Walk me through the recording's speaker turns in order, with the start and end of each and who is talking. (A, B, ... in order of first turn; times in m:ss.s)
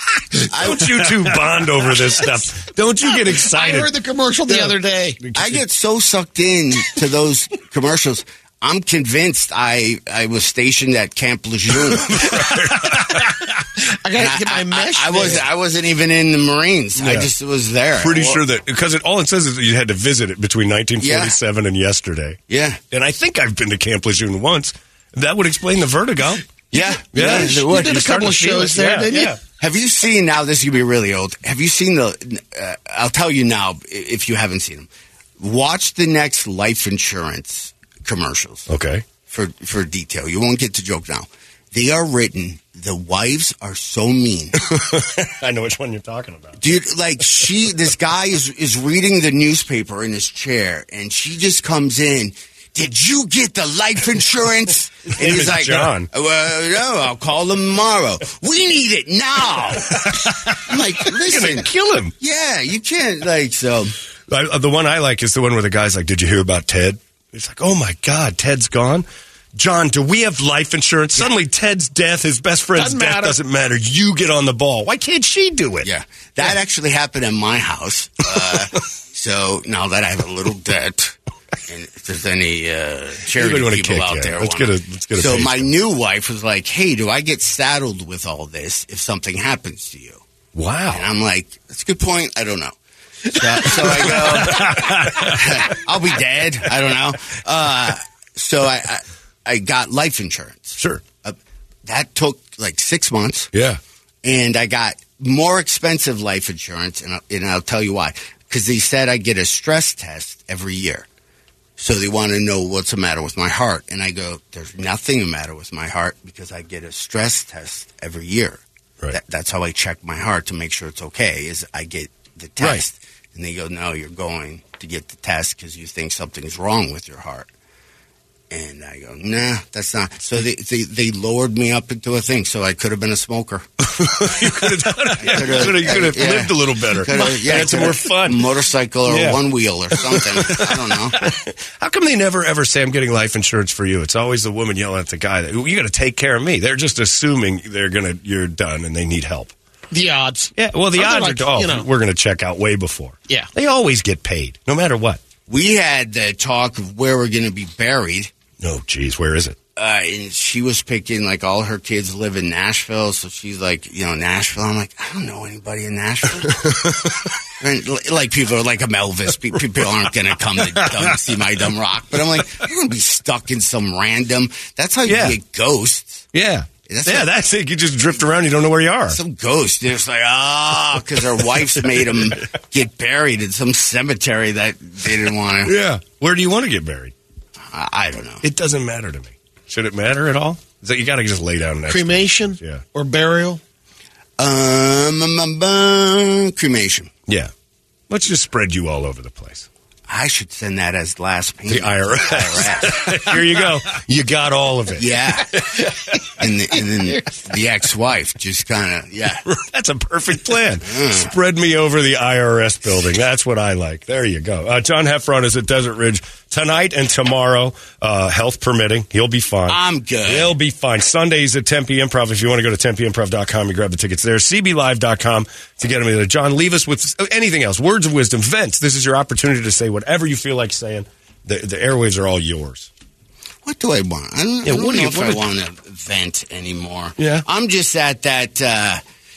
0:00.5-0:01.3 A
0:00.5-0:03.9 B
0:03.3-0:05.2 C
0:04.5-0:05.6 B
0:05.3-0:12.5 A
0:12.0-0:13.2 B
0:14.0-0:15.4 C
0:14.1-0:18.4 A
0:17.0-0:17.3 B
0:18.0-0:22.4 B
0:21.0-0:21.4 A
0:22.5-0:22.8 A
0:22.9-0:29.4 B
0:26.7-0:28.0 A
0:27.3-0:29.4 C
0:29.6-0:34.9 A
0:35.4-0:38.7 A
0:38.7-0:39.0 B
0:39.2-0:44.7 A
0:44.7-0:46.6 B
0:46.6-1:01.7 A
0:55.1-0:56.1 B
1:00.0-1:02.1 B
1:02.2-1:03.9 A
1:04.3-1:15.9 B
1:12.7-1:13.4 C
1:15.8-1:21.2 A
1:21.7-1:30.2 A
1:23.3-1:25.7 B
1:30.5-1:31.0 B
1:30.9-1:32.7 A
1:33.3-1:43.5 A
1:33.8-1:35.5 B
1:40.8-1:41.0 B
1:43.5-1:43.8 B
1:44.2-1:51.0 A
1:51.8-1:58.6 A
1:59.1-2:07.5 A
2:08.5-2:13.6 A
2:13.8-2:19.4 B
2:15.2-2:21.2 A
2:17.1-2:17.5 C
2:20.0-2:29.5 B
2:29.9-2:31.9 C
2:30.6-2:35.2 B
2:35.5-2:38.3 A
2:38.6-2:39.6 B
2:39.8-2:46.9 A
2:46.4-2:47.3 B
2:47.6-2:56.3 A
2:55.0-2:55.4 B
2:56.3-2:59.2 B
2:56.9-2:57.3 A
2:59.1-3:05.7 A
3:05.6-3:07.1 B
3:07.7-3:08.4 A
3:08.4-3:12.8 B
3:11.9-3:13.6 C
3:14.4-3:17.1 A
3:18.1-3:19.7 B
3:20.1-3:23.4 A
3:21.7-3:26.2 B
3:25.0-3:29.4 A
3:29.5-3:52.9 B
3:30.9-3:31.3 A
3:39.7-3:40.5 A
3:53.6-3:59.0 A
3:54.6-3:55.5 B
3:57.2-3:57.4 B